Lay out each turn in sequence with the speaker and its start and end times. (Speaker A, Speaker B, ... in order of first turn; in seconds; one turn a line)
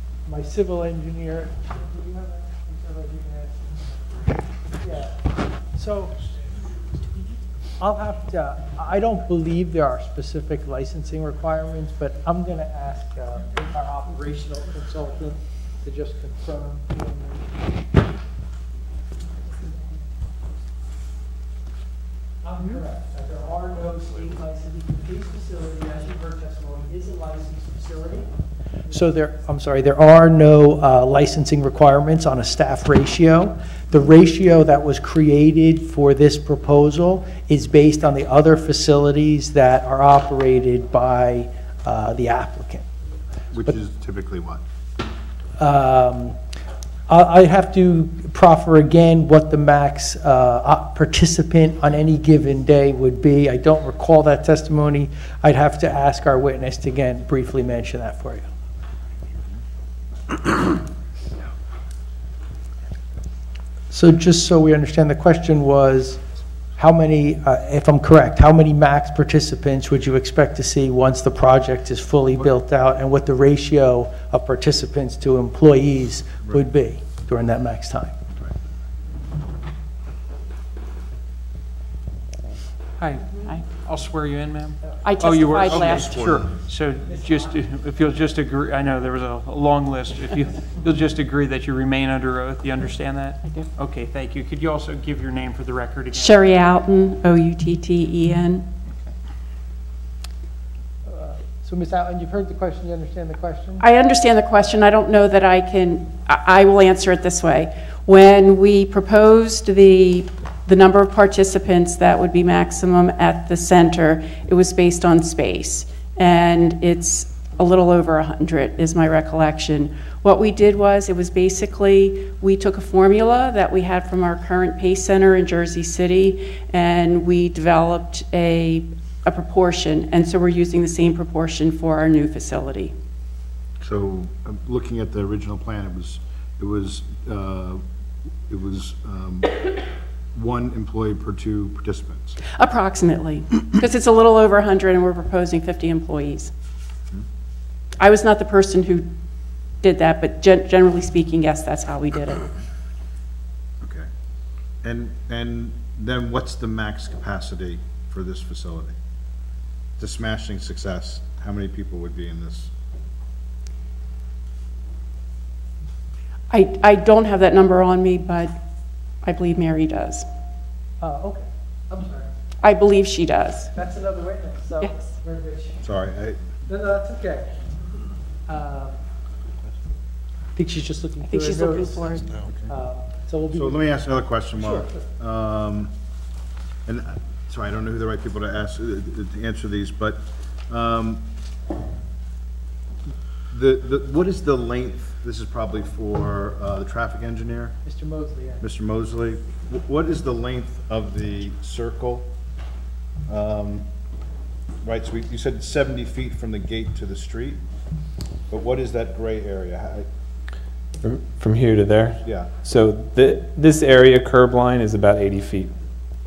Speaker A: 0.3-3.7
Speaker A: 4.8-5.2
Speaker A: 5.8-6.2
Speaker A: 7.8-17.6
Speaker A: 22.4-28.3
Speaker A: 28.9-42.9
Speaker B: 43.5-44.6
Speaker A: 45.6-46.4
Speaker A: 47.1-58.5
Speaker A: 63.9-66.2
Speaker A: 66.8-78.1
Speaker C: 83.0-96.5
Speaker D: 85.0-86.2
Speaker B: 85.6-86.5
Speaker D: 96.1-98.7
Speaker A: 101.1-103.8
Speaker D: 103.8-132.9
Speaker B: 133.8-137.8
Speaker B: 138.5-139.8
Speaker B: 140.3-142.4
Speaker D: 142.6-146.5
Speaker D: 148.0-149.1
Speaker D: 149.8-152.5
Speaker B: 153.8-154.1
Speaker B: 154.8-158.9
Speaker B: 160.0-162.7
Speaker D: 166.5-168.5
Speaker D: 169.2-170.3
Speaker A: 171.0-172.3
Speaker D: 172.6-173.7
Speaker A: 173.8-175.8
Speaker B: 175.8-176.4
Speaker A: 176.7-177.6
Speaker A: 178.5-179.0
Speaker A: 180.6-183.9
Speaker D: 181.2-182.3
Speaker B: 183.5-185.9
Speaker A: 184.6-185.0
Speaker B: 186.9-191.2
Speaker B: 193.5-197.8
Speaker A: 197.8-198.7
Speaker B: 198.6-202.3
Speaker B: 203.3-203.9
Speaker B: 204.8-207.6
Speaker B: 208.5-210.1
Speaker E: 211.0-215.7
Speaker B: 212.2-212.5